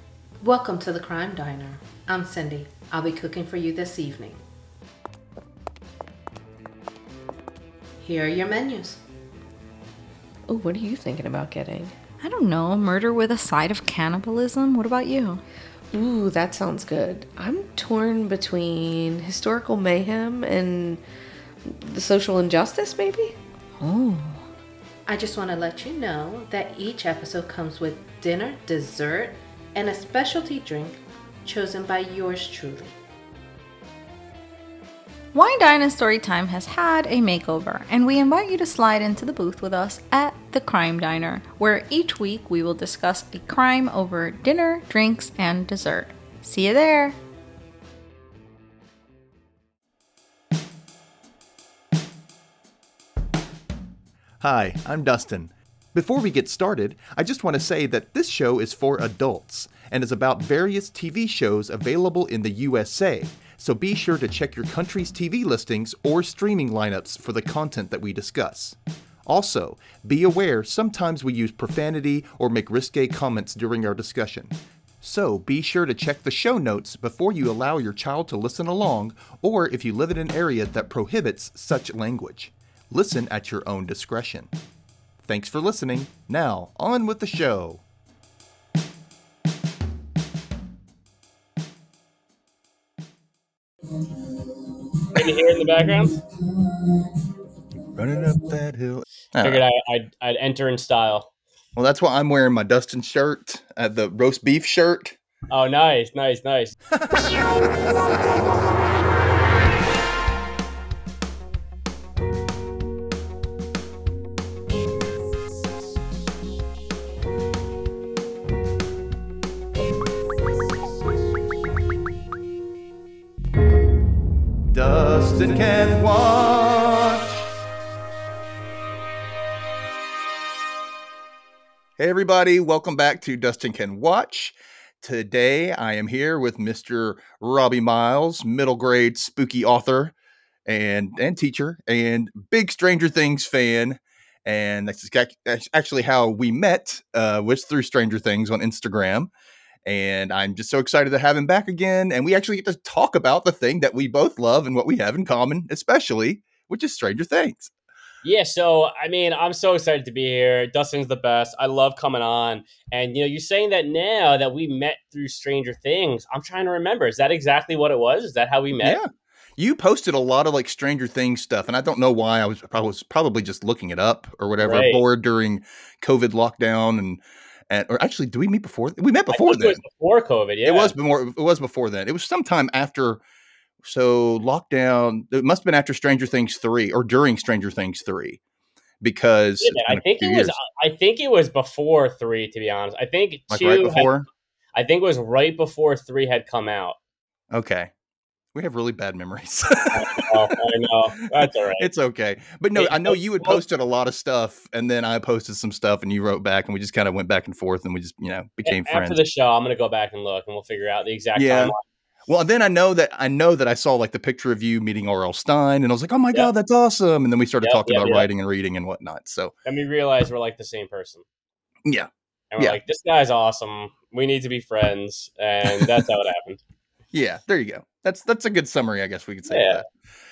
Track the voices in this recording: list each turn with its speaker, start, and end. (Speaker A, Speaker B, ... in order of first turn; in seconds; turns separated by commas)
Speaker A: 0.4-4.4, Speaker A: 8.0-9.0, Speaker B: 10.5-11.9, Speaker C: 12.2-15.4, Speaker B: 15.9-21.0, Speaker B: 21.6-23.4, Speaker C: 23.8-24.4, Speaker A: 25.1-32.9, Speaker C: 35.3-47.2, Speaker D: 54.4-84.5, Speaker D: 85.2-87.8, Speaker E: 95.1-96.2, Speaker D: 97.9-99.6, Speaker E: 99.4-101.3, Speaker D: 101.8-105.2, Speaker E: 105.5-106.8, Speaker D: 106.9-108.5, Speaker D: 124.7-127.4, Speaker D: 132.0-140.1, Speaker D: 140.7-149.3, Speaker D: 149.8-157.7, Speaker E: 158.2-169.0, Speaker D: 168.8-179.8, Speaker E: 174.6-175.0, Speaker E: 179.3-180.9, Speaker D: 180.7-183.2, Speaker D: 183.8-188.4, Speaker D: 189.0-190.6, Speaker E: 189.6-194.2, Speaker D: 193.5-194.2, Speaker E: 194.8-197.0, Speaker D: 197.5-197.9, Speaker D: 198.5-200.3, Speaker E: 199.9-201.9, Speaker D: 201.4-209.2, Speaker E: 202.8-203.6, Speaker E: 208.6-211.8, Speaker D: 211.4-211.8, Speaker D: 212.3-219.5, Speaker E: 217.6-218.3, Speaker E: 219.7-221.2, Speaker D: 221.8-222.8, Speaker E: 222.5-226.6, Speaker D: 225.7-225.9, Speaker D: 227.1-229.9, Speaker E: 229.5-229.8